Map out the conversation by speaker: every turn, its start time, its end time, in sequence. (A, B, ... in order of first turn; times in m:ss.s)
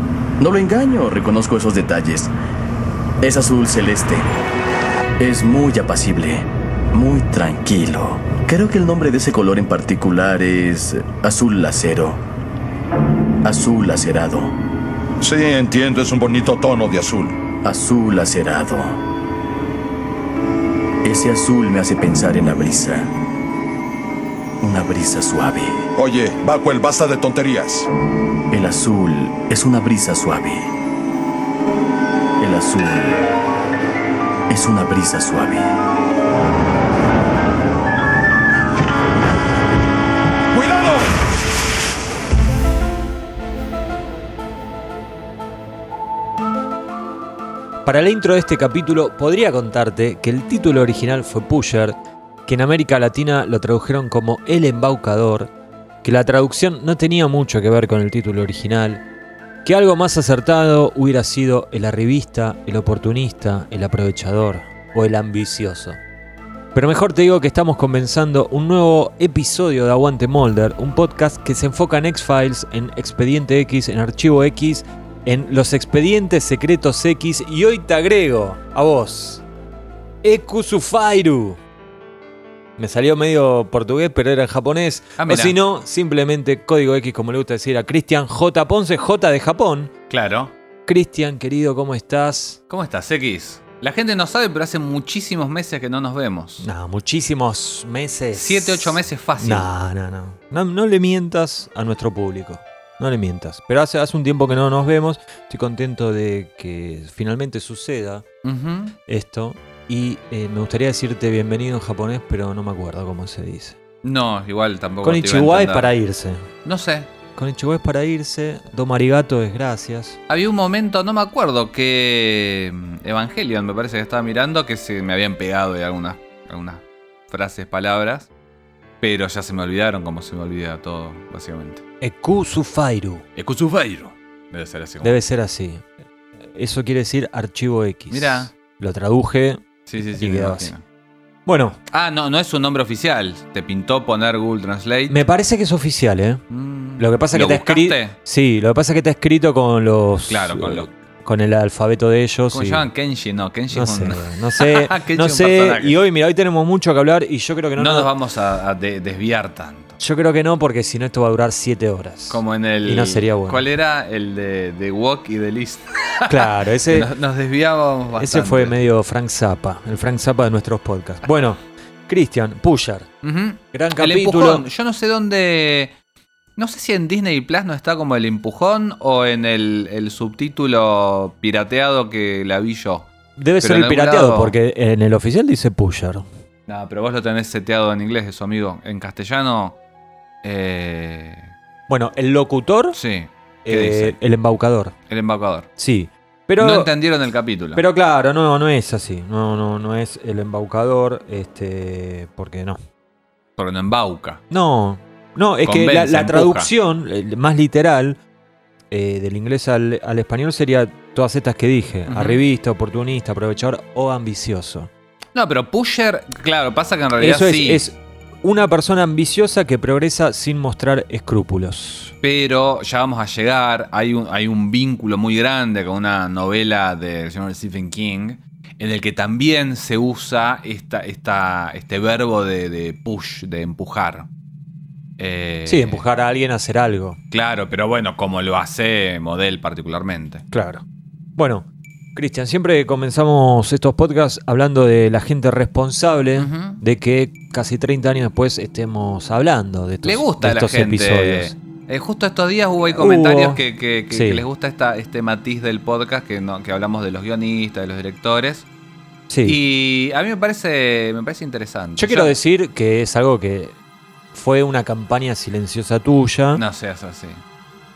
0:00.4-0:02.3 A
0:03.2-0:04.3 A
0:05.2-0:12.2 A
0:13.4-0:14.5 A
0:15.2-0:17.4 B
0:17.6-0:19.0 A
0:21.0-0:23.1 A
0:24.6-0:25.9 A
0:26.0-0:27.9 B
0:28.5-0:30.7 A
0:32.4-0:33.2 A
0:34.5-0:35.7 A
0:40.5-0:41.1 B
0:47.8-0:55.5 C
0:56.0-0:59.0 C
0:59.6-1:06.0 C
1:06.7-1:19.4 C
1:20.2-1:21.6 C
1:22.8-1:29.9 C
1:25.2-1:25.6 D
1:30.1-1:30.5 D
1:30.8-1:32.6 C
1:32.7-1:36.7 D
1:36.6-1:48.2 C
1:38.3-1:39.7 D
1:48.4-1:49.0 D
1:49.1-1:53.8 C
1:54.0-1:55.9 D
1:55.0-1:56.4 C
1:56.6-1:57.1 D
1:57.4-2:00.2 C
2:00.3-2:08.3 D
2:09.0-2:11.8 D
2:12.0-2:13.2 C
2:13.4-2:15.2 D
2:15.0-2:15.8 C
2:16.4-2:20.7 C
2:18.1-2:18.5 D
2:19.8-2:20.8 D
2:21.4-2:21.8 C
2:21.9-2:25.2 D
2:25.1-2:26.4 C
2:26.5-2:28.2 D
2:27.0-2:32.9 C
2:30.3-2:30.9 D
2:32.5-2:36.0 D
2:33.7-2:38.1 C
2:37.8-2:40.0 D
2:40.0-2:43.6 C
2:42.3-2:48.8 D
2:46.3-2:47.1 C
2:48.2-2:53.1 C
2:53.2-2:55.9 D
2:53.7-2:54.6 C
2:56.6-3:03.1 D
3:03.4-3:06.3 C
3:03.6-3:04.6 D
3:06.7-3:09.8 D
3:10.4-3:11.5 D
3:11.9-3:13.0 C
3:12.9-3:14.2 D
3:13.6-3:14.9 C
3:15.1-3:15.7 D
3:15.8-3:16.9 C
3:16.6-3:17.8 D
3:17.7-3:22.8 C
3:23.6-3:24.4 D
3:24.5-3:28.2 C
3:25.6-3:26.7 D
3:28.9-3:34.9 C
3:32.1-3:32.4 D
3:35.3-3:37.8 D
3:37.2-3:42.1 C
3:42.2-3:54.3 D
3:55.2-3:56.0 D
3:55.6-3:57.2 C
3:57.3-4:00.4 D
4:00.5-4:00.8 C
4:01.4-4:11.5 C
4:06.4-4:06.8 D
4:10.0-4:18.6 D
4:12.9-4:14.4 C
4:19.3-4:19.6 C
4:19.4-4:22.4 D
4:22.0-4:23.8 C
4:24.3-4:26.6 C
4:26.5-4:27.4 D